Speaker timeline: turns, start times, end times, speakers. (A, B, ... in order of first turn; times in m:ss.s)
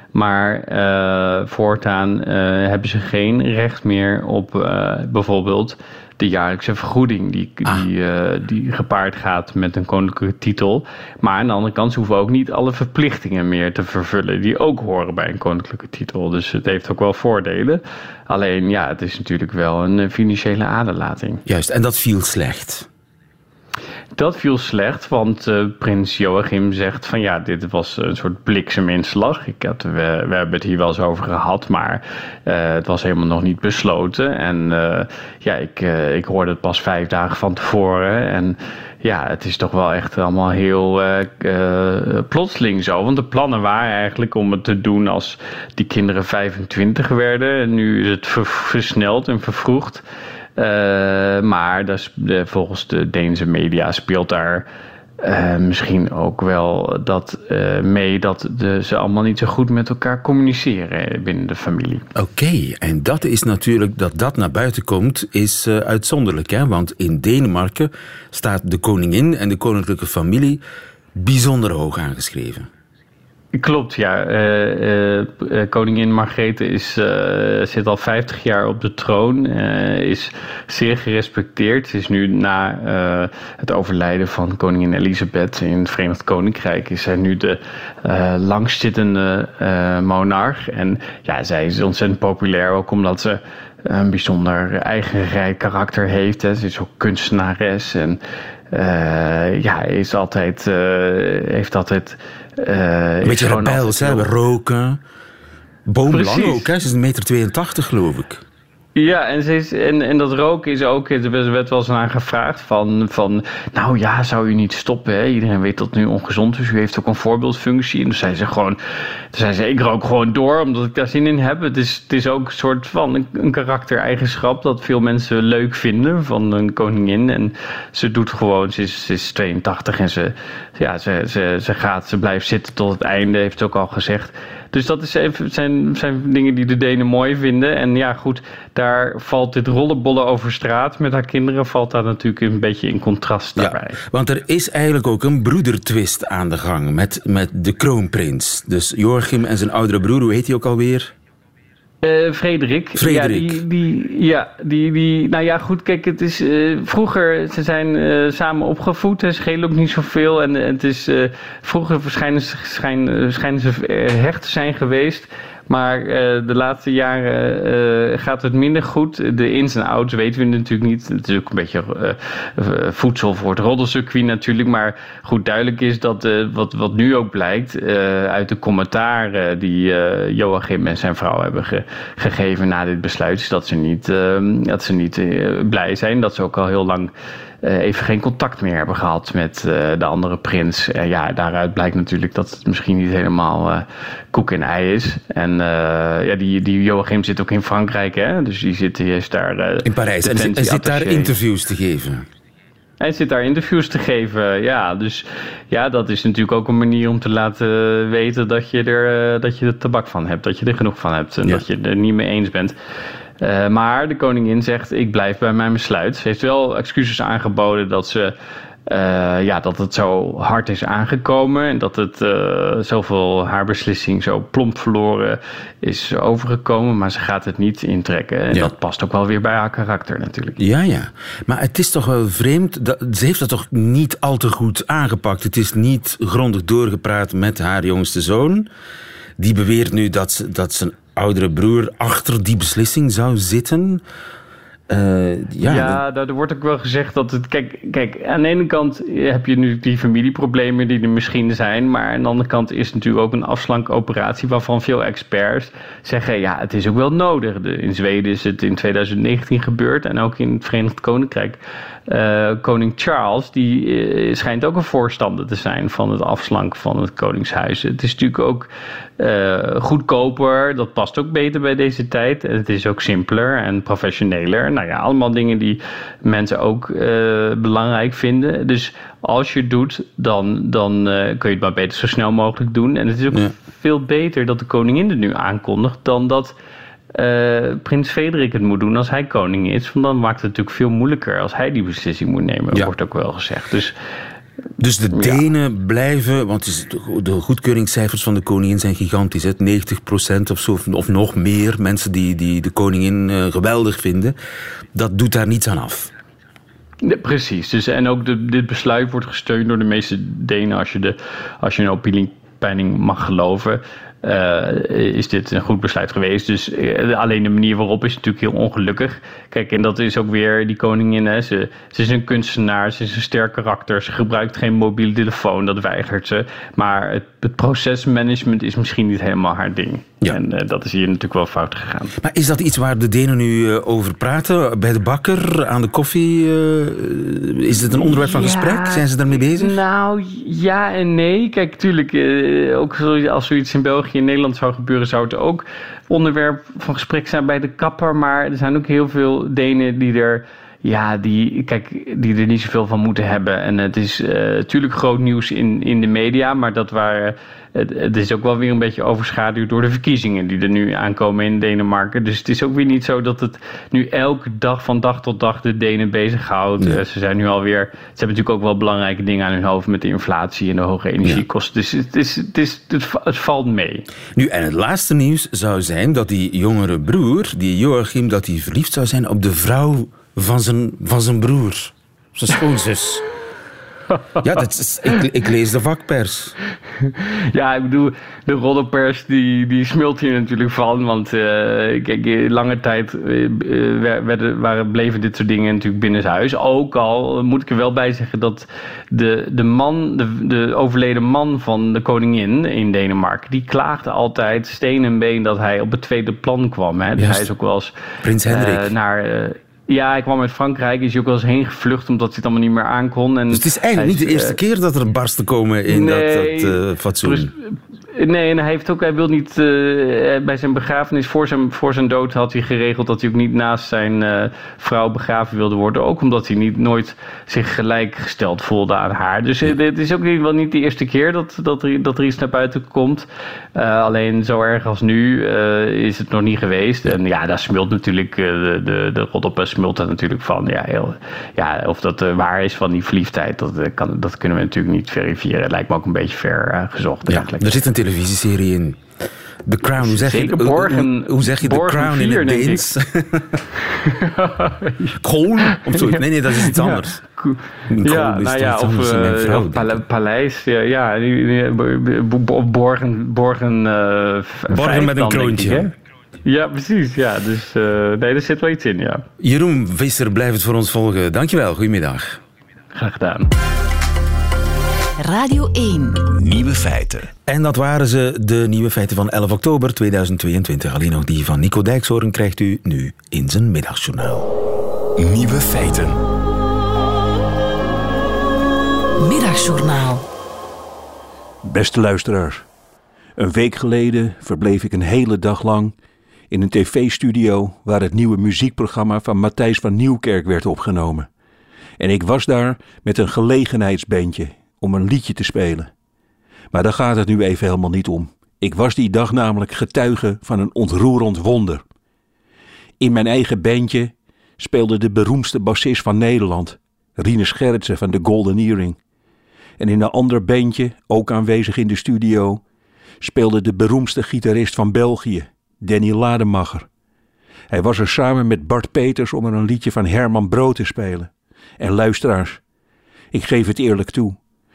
0:00.1-0:21.4 A
0:21.5-0:22.9 B
0:24.2-0:50.0 A
0:50.6-0:54.7 A
0:55.2-1:02.0 A
1:02.2-1:10.6 B
1:11.2-1:12.7 B
1:13.5-1:38.2 A
1:38.7-1:44.3 A
1:43.2-1:45.0 B
1:45.9-1:48.4 B
1:46.1-1:46.7 A
1:49.0-1:58.8 A
1:59.3-2:24.0 A
2:23.6-2:31.1 B
2:32.0-3:07.1 A
2:33.0-2:33.6 B
3:07.6-3:21.3 A
3:19.8-3:22.3 B
3:23.0-3:32.8 A
3:33.4-3:38.3 A
3:38.9-3:50.6 A
3:50.6-3:58.7 B
3:59.4-4:04.0 B
4:04.9-4:06.0 B
4:05.6-4:46.6 A
4:47.1-4:53.9 A
4:54.8-5:04.4 B
4:55.1-4:55.4 A
5:04.9-5:06.1 B
5:07.0-5:32.2 A
5:32.2-5:39.8 B
5:37.9-6:14.1 A
6:14.4-6:23.2 B
6:24.4-6:26.6 B
6:27.1-6:47.9 A
6:47.2-6:47.5 B
6:48.2-6:48.9 B
6:48.4-6:54.6 A
6:53.5-6:57.5 B
6:55.9-7:27.8 A
7:27.3-7:29.0 B
7:29.6-7:33.6 B
7:30.0-7:33.0 A
7:33.9-7:45.9 A
7:35.2-7:37.2 B
7:37.9-7:40.0 B
7:44.7-7:45.9 B
7:46.5-7:49.2 A
7:49.4-7:52.4 B
7:52.9-7:53.5 A
7:55.2-7:56.3 C
7:56.3-7:57.3 D
7:57.5-8:04.5 B
8:05.2-8:06.2 D
8:09.2-8:10.2 C
8:11.6-8:12.7 E
8:13.4-8:15.9 E
8:16.5-8:21.3 E
8:22.0-8:25.9 E
8:26.7-8:31.8 E
8:33.0-8:39.0 E
8:39.8-8:42.6 E
8:43.2-8:46.9 E
8:47.7-8:52.6 E
8:53.3-8:54.4 E